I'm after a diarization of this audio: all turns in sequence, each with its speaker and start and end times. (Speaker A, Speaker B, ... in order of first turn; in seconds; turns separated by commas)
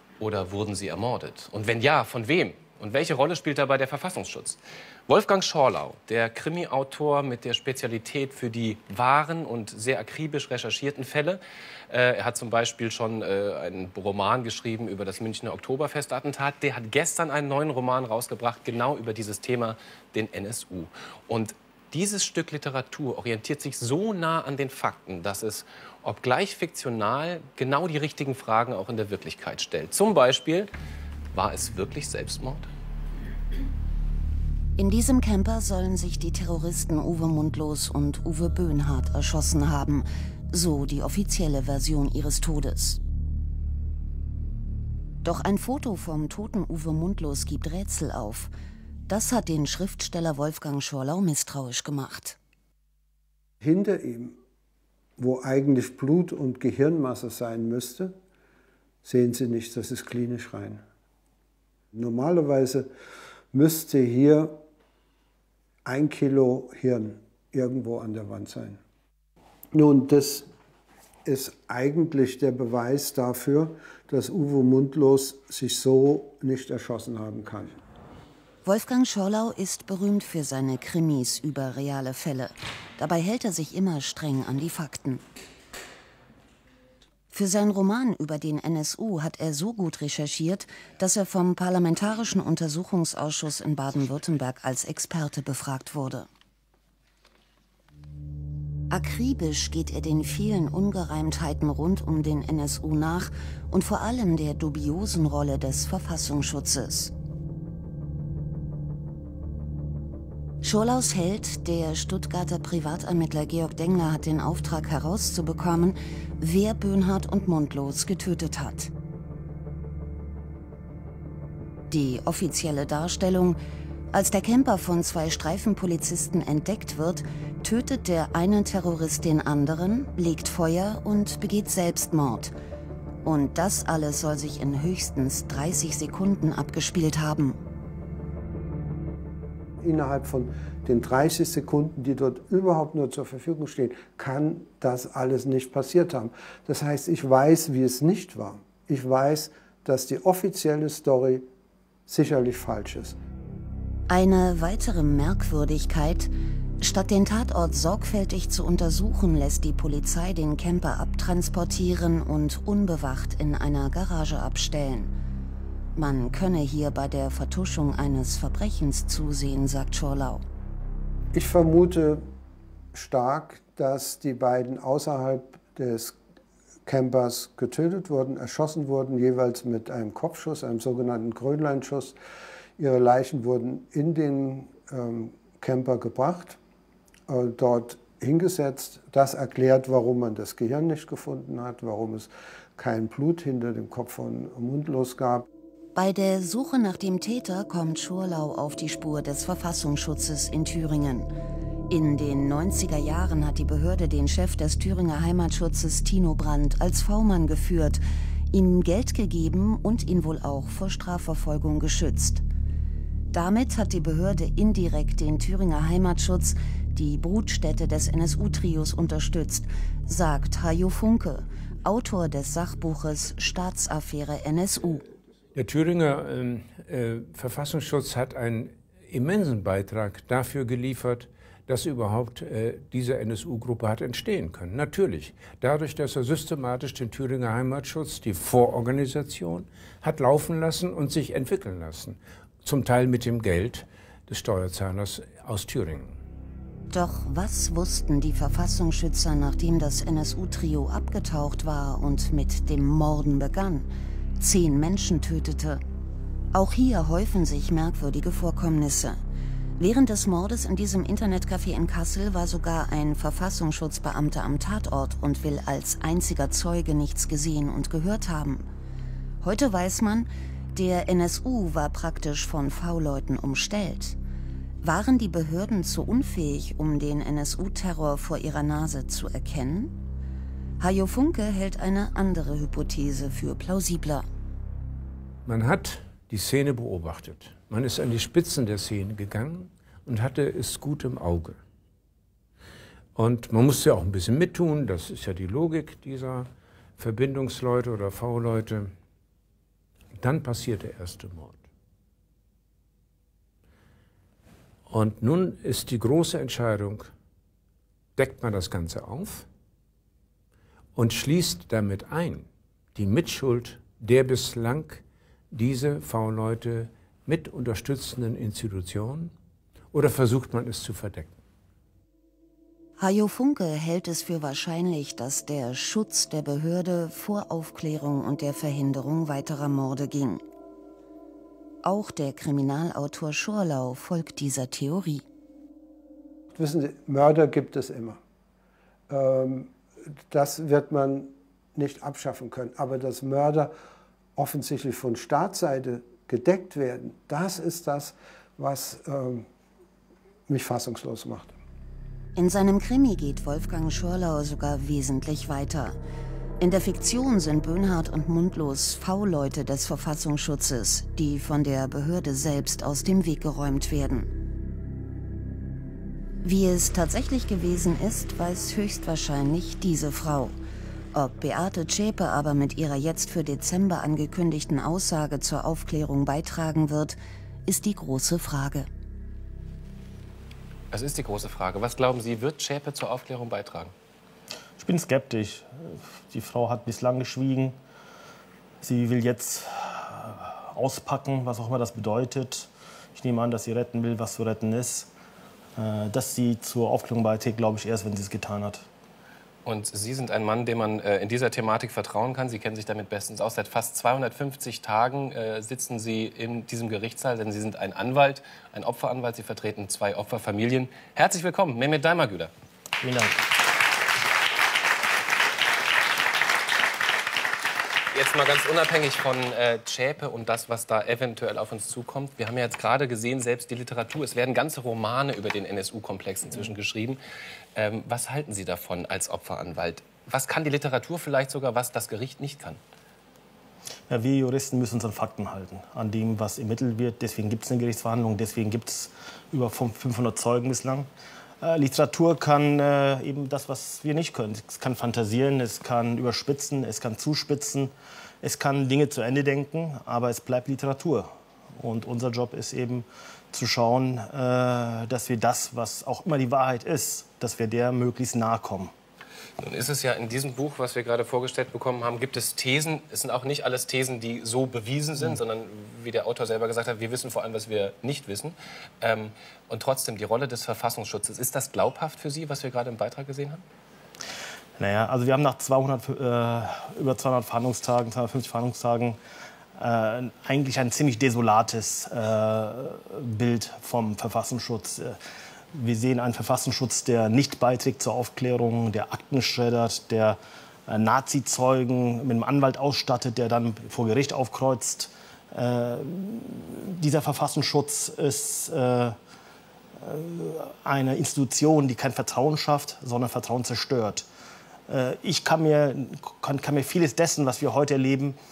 Speaker A: 0.2-30.7, Speaker A: 31.3-32.7, Speaker B: 34.8-43.0, Speaker B: 45.2-48.5, Speaker B: 49.1-52.4, Speaker C: 53.6-54.4, Speaker C: 55.2-58.2, Speaker C: 59.0-60.8, Speaker C: 61.9-62.9, Speaker C: 63.5-64.6, Speaker C: 65.8-68.8, Speaker C: 69.7-70.5, Speaker C: 71.2-77.8, Speaker B: 78.7-85.2, Speaker B: 87.3-96.3, Speaker B: 98.9-107.1, Speaker B: 110.6-118.9, Speaker B: 121.9-123.6, Speaker B: 124.1-132.5, Speaker B: 133.2-137.6, Speaker C: 139.8-151.5, Speaker C: 152.1-153.2, Speaker B: 154.1-165.1, Speaker B: 166.0-170.4, Speaker C: 171.3-172.3, Speaker C: 172.9-176.2, Speaker C: 176.8-182.2, Speaker C: 182.8-186.6, Speaker C: 187.3-195.5, Speaker B: 195.9-201.3, Speaker B: 201.9-208.0, Speaker B: 208.5-212.4, Speaker B: 213.3-225.0, Speaker D: 225.6-246.2, Speaker B: 246.9-253.9, Speaker B: 254.4-255.8, Speaker B: 256.5-259.2, Speaker B: 259.8-268.6, Speaker B: 269.4-274.2, Speaker B: 274.8-280.0, Speaker B: 280.8-284.3, Speaker D: 285.4-291.6, Speaker D: 293.2-298.9, Speaker D: 300.1-301.6, Speaker D: 304.9-307.1, Speaker D: 308.2-309.5, Speaker D: 310.9-319.3, Speaker D: 319.9-321.4, Speaker B: 323.0-330.4, Speaker B: 331.8-335.2, Speaker C: 336.5-338.2, Speaker C: 339.1-339.7, Speaker C: 340.3-343.7, Speaker C: 344.4-349.5, Speaker C: 350.5-351.6, Speaker B: 352.4-356.0, Speaker B: 356.6-364.3, Speaker B: 366.4-370.6, Speaker B: 371.1-378.9, Speaker A: 380.9-383.9, Speaker E: 384.8-387.8, Speaker E: 388.8-395.1, Speaker E: 395.8-398.9, Speaker A: 399.6-412.5, Speaker E: 413.0-413.4, Speaker A: 418.1-427.2, Speaker A: 427.8-432.8, Speaker E: 434.1-441.1, Speaker E: 441.6-458.9, Speaker A: 459.6-473.6, Speaker E: 474.8-479.2, Speaker E: 479.8-485.2, Speaker E: 485.7-499.2, Speaker E: 500.0-504.3, Speaker E: 504.9-508.4